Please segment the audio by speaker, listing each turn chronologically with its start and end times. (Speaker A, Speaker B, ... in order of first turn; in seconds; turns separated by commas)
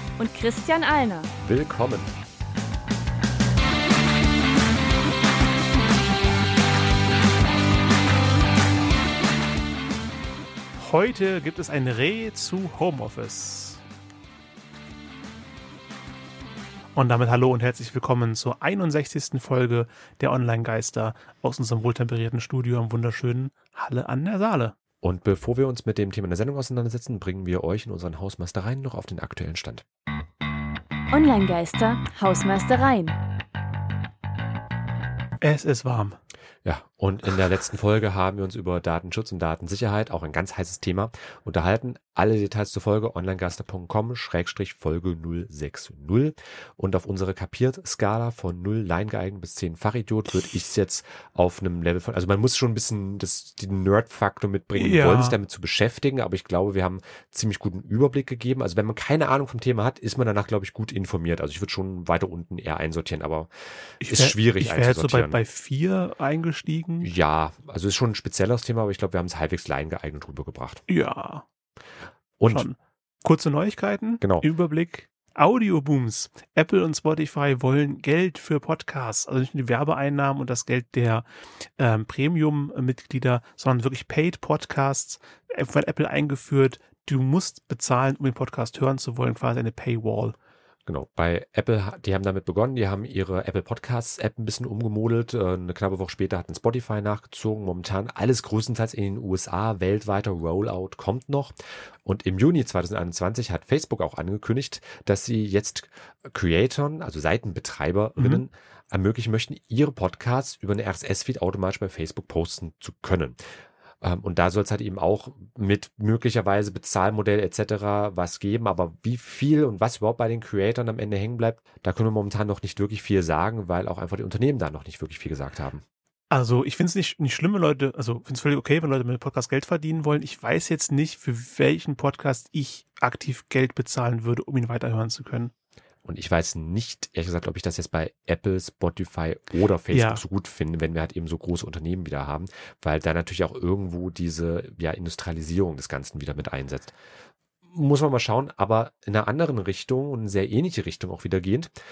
Speaker A: 0.2-1.3, Speaker B: 1.4-2.1, Speaker C: 10.8-13.8, Speaker C: 16.9-24.7, Speaker B: 25.0-29.8, Speaker A: 31.1-33.2, Speaker C: 35.4-36.2, Speaker B: 36.6-63.5, Speaker C: 54.8-55.4, Speaker B: 64.0-65.4, Speaker C: 64.0-67.1, Speaker B: 67.0-70.8, Speaker C: 70.9-71.5, Speaker B: 72.4-72.7, Speaker C: 72.5-81.2, Speaker B: 74.2-74.5, Speaker C: 81.8-90.3, Speaker B: 90.8-113.4, Speaker C: 108.2-108.4, Speaker B: 114.0-125.8, Speaker C: 126.3-135.5, Speaker B: 136.0-146.9, Speaker C: 139.9-140.2, Speaker B: 147.7-151.7